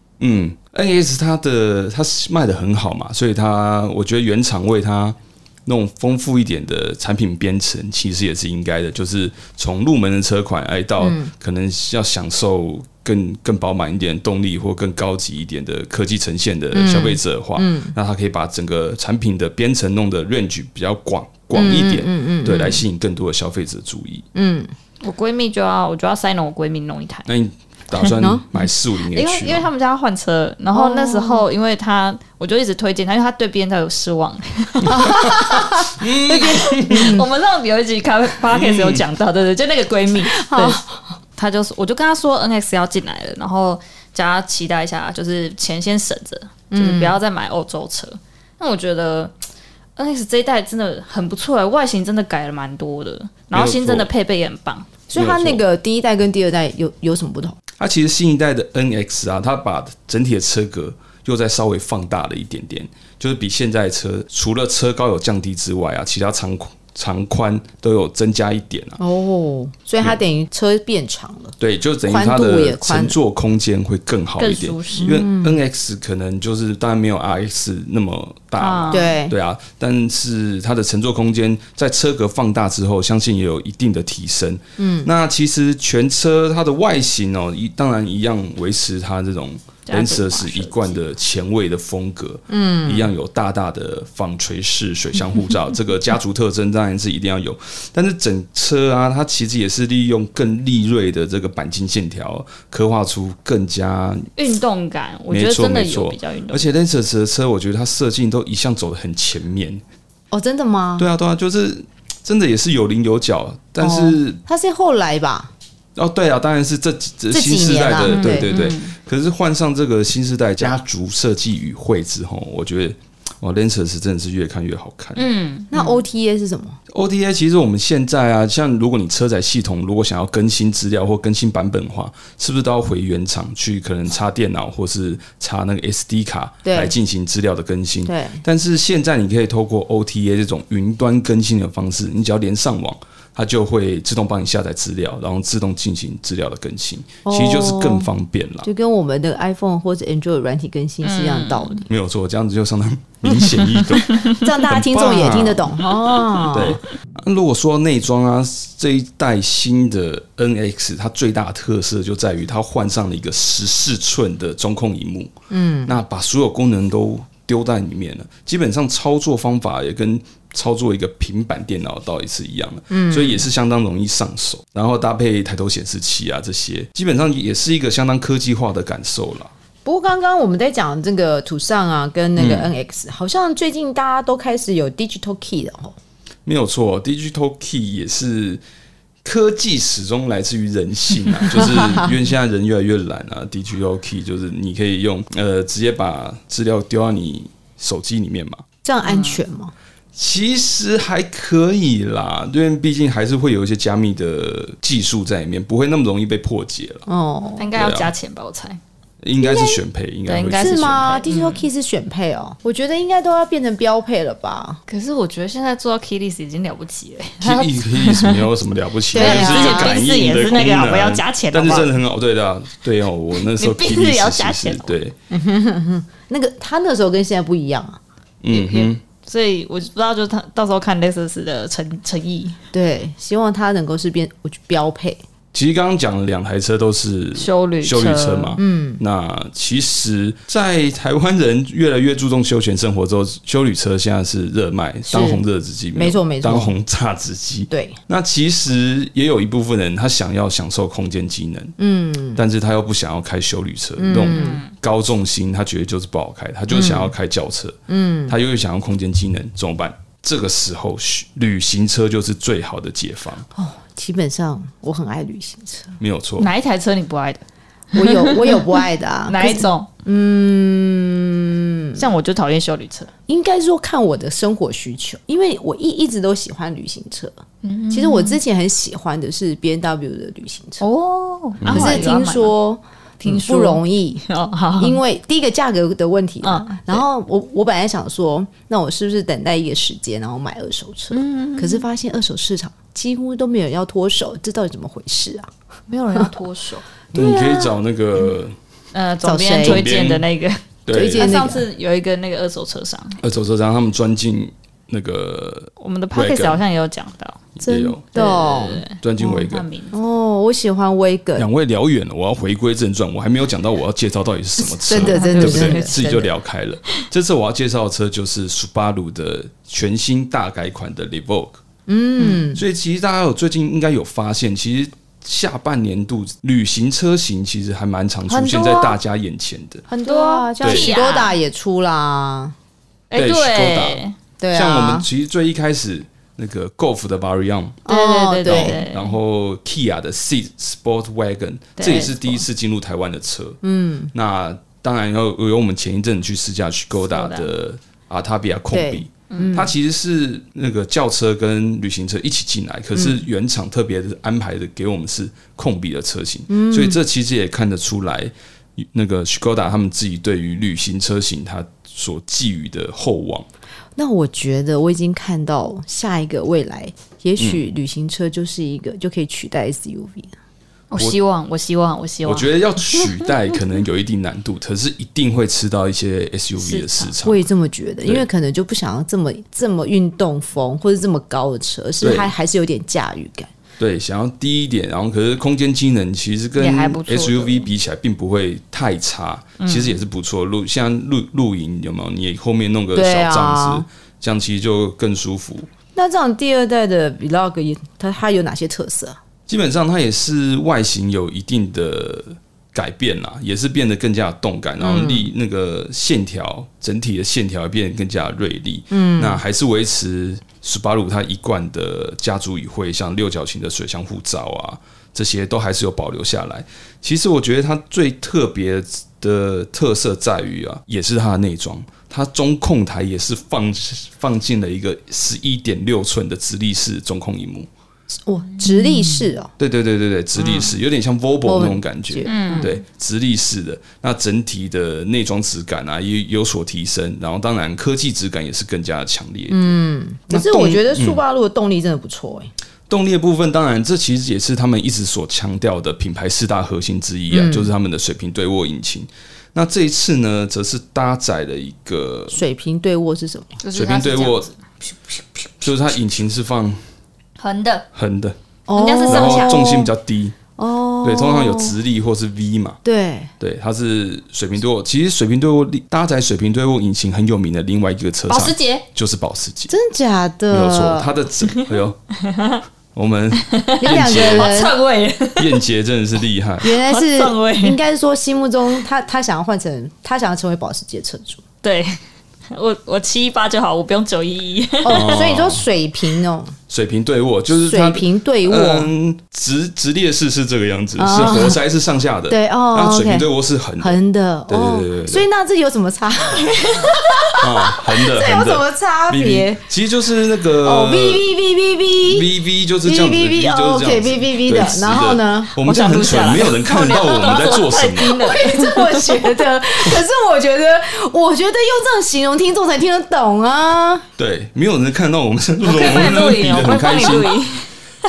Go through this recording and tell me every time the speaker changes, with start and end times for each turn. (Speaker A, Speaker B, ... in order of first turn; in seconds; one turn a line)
Speaker A: 0.2-24.3
Speaker B: 11.0-11.3
Speaker B: 16.7-17.9
Speaker B: 21.5-22.8
Speaker B: 24.3-24.7
Speaker C: 25.0-27.3
Speaker A: 27.2-29.7
Speaker C: 29.0-35.6
Speaker B: 30.7-31.4
Speaker B: 34.8-37.2
Speaker A: 34.9-37.2
Speaker C: 36.4-40.8
Speaker A: 38.5-39.0
Speaker B: 40.3-41.1
Speaker C: 41.4-49.3
Speaker B: 46.7-47.1
Speaker C: 50.0-54.9
Speaker A: 53.5-54.1
Speaker B: 55.1-57.6
Speaker A: 55.1-55.6
Speaker A: 57.8-69.0
Speaker B: 69.0-71.5
Speaker A: 71.6-104.3
Speaker B: 72.1-73.2
Speaker C: 74.4-75.2
Speaker B: 74.9-75.6
Speaker C: 78.6-79.2
Speaker B: 78.9-79.3
Speaker B: 84.8-85.1
Speaker C: 89.8-91.0
Speaker B: 92.5-93.1
Speaker C: 104.4-106.7
Speaker A: 105.3-109.8
Speaker B: 110.3-111.1
Speaker A: 111.0-114.4
Speaker B: 113.8-115.5
Speaker A: 116.0-125.3
Speaker B: 117.3-118.5
Speaker C: 118.0-118.9
Speaker C: 125.2-126.0
Speaker B: 125.7-126.8
Speaker A: 126.9-148.7
Speaker B: 136.6-136.9
Speaker B: 138.0-138.4
Speaker B: 147.2-148.1
Speaker B: 148.6-151.9
Speaker C: 151.0-151.8
Speaker A: 151.9-155.9
Speaker B: 154.3-156.8
Speaker A: 156.5-165.3
Speaker B: 165.5-165.9
Speaker A: 165.8-179.5
Speaker B: 172.9-173.5
Speaker B: 179.8-185.9
Speaker A: 182.3-182.7
Speaker A: 186.4-188.6
Speaker A: 189.2-198.6
Speaker B: 191.6-192.1
Speaker B: 198.8-199.7
Speaker C: 199.0-199.4
Speaker A: 200.1-207.1
Speaker B: 207.1-207.7
Speaker C: 207.6-208.8
Speaker A: 207.7-208.1
Speaker A: 209.2-211.2
Speaker B: 209.4-209.8
Speaker C: 210.2-211.7
Speaker B: 210.5-214.8
Speaker C: 214.9-218.5
Speaker A: 217.4-225.1
Speaker B: 219.1-220.0
Speaker C: 219.1-221.9
Speaker C: 223.4-224.9
Speaker B: 225.3-228.0
Speaker A: 228.4-229.0
Speaker B: 228.5-228.9
Speaker C: 229.2-232.6
Speaker B: 232.7-235.2
Speaker A: 235.5-251.7
Speaker C: 237.4-238.6
Speaker B: 238.6-239.0
Speaker B: 245.1-245.4
Speaker B: 245.9-246.7
Speaker B: 247.7-248.0
Speaker B: 251.8-252.4
Speaker A: 252.3-263.5
Speaker B: 254.0-254.6
Speaker C: 254.3-254.7
Speaker B: 256.7-257.1
Speaker B: 257.9-258.3
Speaker B: 263.5-266.0
Speaker A: 266.0-266.5
Speaker C: 266.4-269.9
Speaker B: 267.9-272.1
Speaker C: 272.0-273.1
Speaker B: 273.3-277.3
Speaker C: 277.6-278.4
Speaker B: 277.9-280.8
Speaker C: 280.8-282.5
Speaker A: 281.6-282.1
Speaker B: 281.7-284.2
Speaker C: 283.2-285.0
Speaker B: 284.8-295.5
Speaker C: 286.4-287.0
Speaker C: 291.1-291.8
Speaker C: 295.9-296.9
Speaker B: 297.1-297.7
Speaker A: 297.1-298.6
Speaker C: 298.9-303.2
Speaker B: 299.2-300.1
Speaker A: 299.6-300.2
Speaker A: 300.9-301.3
Speaker B: 300.9-301.6
Speaker A: 303.2-306.6
Speaker C: 305.8-307.5
Speaker A: 307.6-308.1
Speaker B: 307.6-308.8
Speaker C: 308.1-309.9
Speaker A: 309.0-309.6
Speaker B: 309.9-311.5
Speaker A: 311.4-321.6
Speaker B: 314.6-316.3
Speaker C: 314.9-316.1
Speaker B: 321.9-322.6
Speaker A: 322.5-329.8
Speaker C: 328.3-328.9
Speaker B: 329.9-332.5
Speaker C: 329.9-331.4
Speaker A: 330.6-330.9
Speaker C: 333.1-334.1
Speaker A: 333.1-337.8
Speaker B: 334.4-335.1
Speaker B: 337.9-338.8
Speaker C: 337.9-339.1
Speaker A: 338.4-343.6
Speaker C: 341.8-342.4
Speaker B: 343.6-344.1
Speaker A: 344.1-363.5
Speaker C: 347.1-347.5
Speaker B: 348.7-349.7
Speaker C: 349.3-349.6
Speaker B: 352.9-353.2
Speaker B: 356.5-357.0
Speaker B: 364.0-370.3
Speaker C: 370.9-373.3
Speaker A: 372.2-377.4
Speaker C: 376.6-377.1
Speaker B: 377.2-383.5
Speaker A: 382.0-382.3
Speaker A: 383.8-395.7
Speaker C: 386.6-387.7
Speaker C: 389.6-390.0
Speaker B: 392.9-393.9
Speaker B: 395.9-399.2
Speaker A: 399.5-427.7
Speaker B: 404.8-405.3
Speaker B: 408.9-409.4
Speaker B: 428.2-429.5
Speaker C: 428.6-429.2
Speaker A: 429.6-439.8
Speaker B: 430.4-430.7
Speaker B: 431.4-432.7
Speaker C: 432.2-432.7
Speaker B: 439.5-442.5
Speaker A: 440.3-441.2
Speaker A: 442.9-452.4
Speaker B: 447.3-447.7
Speaker B: 452.3-453.6
Speaker C: 453.6-454.5
Speaker A: 453.7-454.5
Speaker A: 455.6-456.8
Speaker C: 457.4-457.9
Speaker A: 457.9-458.4
Speaker B: 458.7-459.9
Speaker C: 458.7-459.7
Speaker A: 459.1-460.4
Speaker B: 460.6-461.8
Speaker A: 461.0-462.8
Speaker B: 462.8-463.3
Speaker A: 463.4-469.7
Speaker C: 468.3-468.9
Speaker B: 469.7-471.1
Speaker A: 470.5-472.0
Speaker C: 471.5-472.6
Speaker A: 472.9-474.7
Speaker C: 473.4-475.6
Speaker B: 473.8-474.7
Speaker A: 475.4-476.7
Speaker B: 476.6-481.4
Speaker C: 476.6-477.8
Speaker C: 481.6-482.0
Speaker C: 482.5-485.3
Speaker B: 484.8-486.5
Speaker A: 484.9-485.6
Speaker A: 486.7-495.2
Speaker B: 487.5-488.9
Speaker B: 491.0-491.6
Speaker B: 492.3-493.3
Speaker B: 493.8-499.6
Speaker C: 496.4-496.9
Speaker A: 497.4-501.3
Speaker B: 500.6-502.3
Speaker A: 502.0-508.3
Speaker B: 502.8-505.5
Speaker C: 505.6-509.4
Speaker B: 506.9-514.0
Speaker A: 514.2-517.4
Speaker C: 515.6-517.7